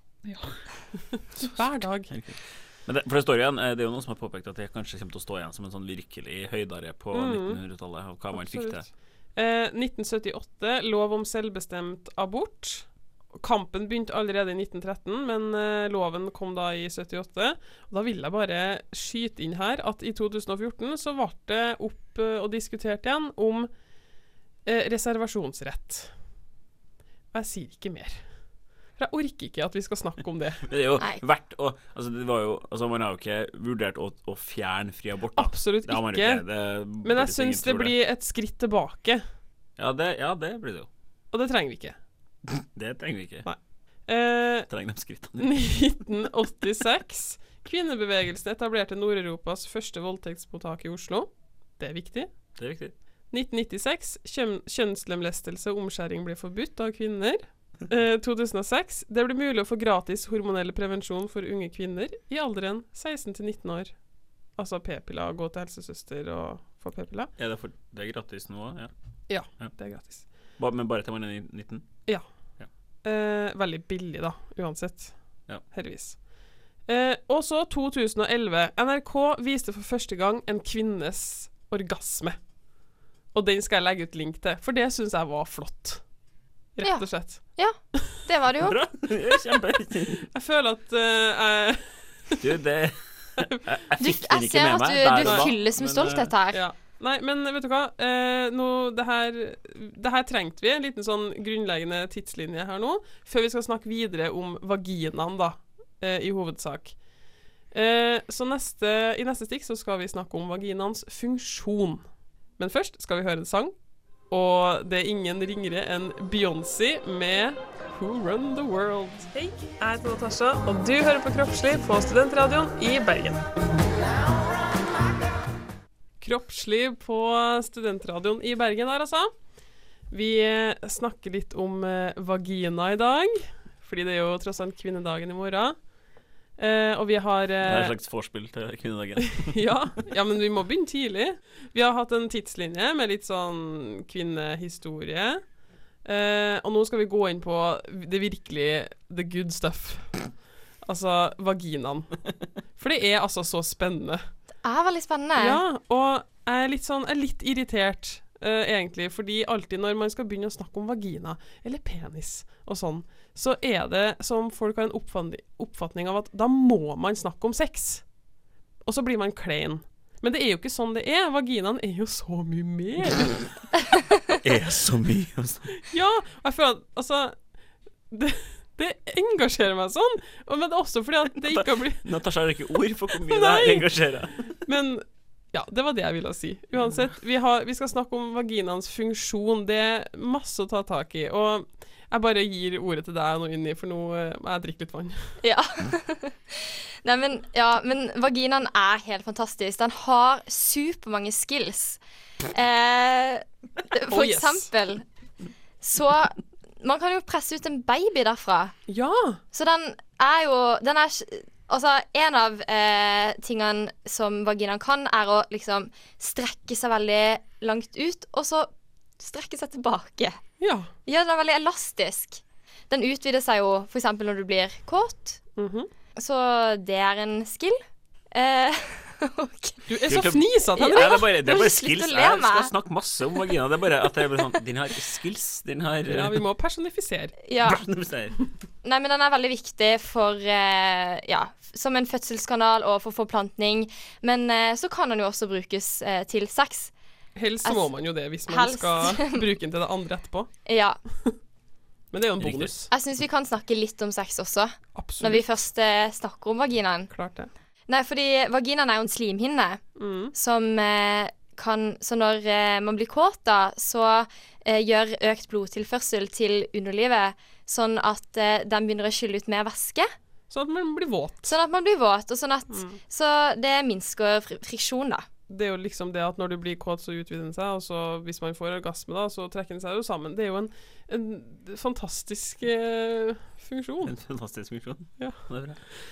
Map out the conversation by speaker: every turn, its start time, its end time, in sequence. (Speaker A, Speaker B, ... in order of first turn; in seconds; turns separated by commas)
Speaker A: 0.2-2.1, Speaker B: 1.4-8.9, Speaker A: 7.1-7.6, Speaker A: 8.3-23.7, Speaker A: 24.7-26.1, Speaker A: 27.3-28.2, Speaker A: 29.0-30.6, Speaker B: 30.7-37.9, Speaker A: 35.4-36.4, Speaker A: 37.0-39.2, Speaker B: 39.8-40.9, Speaker A: 41.3-42.0, Speaker B: 42.5-43.5, Speaker A: 43.5-44.7, Speaker B: 44.7-45.5, Speaker A: 45.4-51.3, Speaker A: 51.8-52.3, Speaker B: 52.6-52.9, Speaker A: 53.3-63.9, Speaker A: 64.6-67.3, Speaker B: 67.4-68.9, Speaker A: 69.3-70.2, Speaker B: 70.6-71.9, Speaker A: 73.0-75.1, Speaker A: 75.7-76.2, Speaker A: 76.9-82.4, Speaker A: 83.3-86.0, Speaker A: 86.8-87.4, Speaker C: 86.8-88.8, Speaker B: 88.6-90.3, Speaker A: 90.2-92.5, Speaker B: 92.4-96.3, Speaker C: 94.0-96.6, Speaker A: 95.2-95.5, Speaker A: 96.5-107.0, Speaker A: 107.7-112.0, Speaker A: 112.6-113.7, Speaker A: 114.3-123.5, Speaker A: 126.2-129.3, Speaker A: 130.1-135.8, Speaker A: 136.6-137.9, Speaker B: 137.6-139.7, Speaker A: 139.3-145.4, Speaker A: 146.1-150.2, Speaker A: 150.8-152.2, Speaker A: 152.8-154.2, Speaker C: 154.6-155.6, Speaker A: 155.4-168.0, Speaker A: 168.9-173.5, Speaker B: 174.4-175.8, Speaker A: 175.8-177.3, Speaker A: 178.1-182.1, Speaker B: 181.4-184.6, Speaker A: 183.3-183.9, Speaker A: 184.7-195.3, Speaker C: 195.4-202.0, Speaker C: 202.5-205.1, Speaker A: 204.1-204.7, Speaker C: 205.8-208.8, Speaker A: 208.9-209.4, Speaker C: 209.5-220.4, Speaker A: 220.6-220.9, Speaker C: 221.1-225.4, Speaker A: 225.6-225.9, Speaker C: 226.2-227.8, Speaker C: 228.3-229.9, Speaker A: 229.9-231.2, Speaker B: 230.1-236.4, Speaker C: 230.8-232.7, Speaker A: 236.1-237.4, Speaker C: 237.4-237.8, Speaker B: 237.6-238.3, Speaker C: 238.8-246.9, Speaker A: 247.4-250.5, Speaker C: 247.6-247.9, Speaker C: 248.5-249.4, Speaker C: 250.7-251.0, Speaker A: 252.1-252.9, Speaker B: 252.4-252.7, Speaker C: 252.9-257.1, Speaker A: 254.9-255.5, Speaker A: 257.1-257.5, Speaker C: 257.9-259.8, Speaker A: 260.0-260.3, Speaker C: 260.3-270.1, Speaker A: 270.5-271.5, Speaker C: 271.5-275.2, Speaker A: 272.7-273.0, Speaker A: 275.5-284.1, Speaker B: 284.1-285.8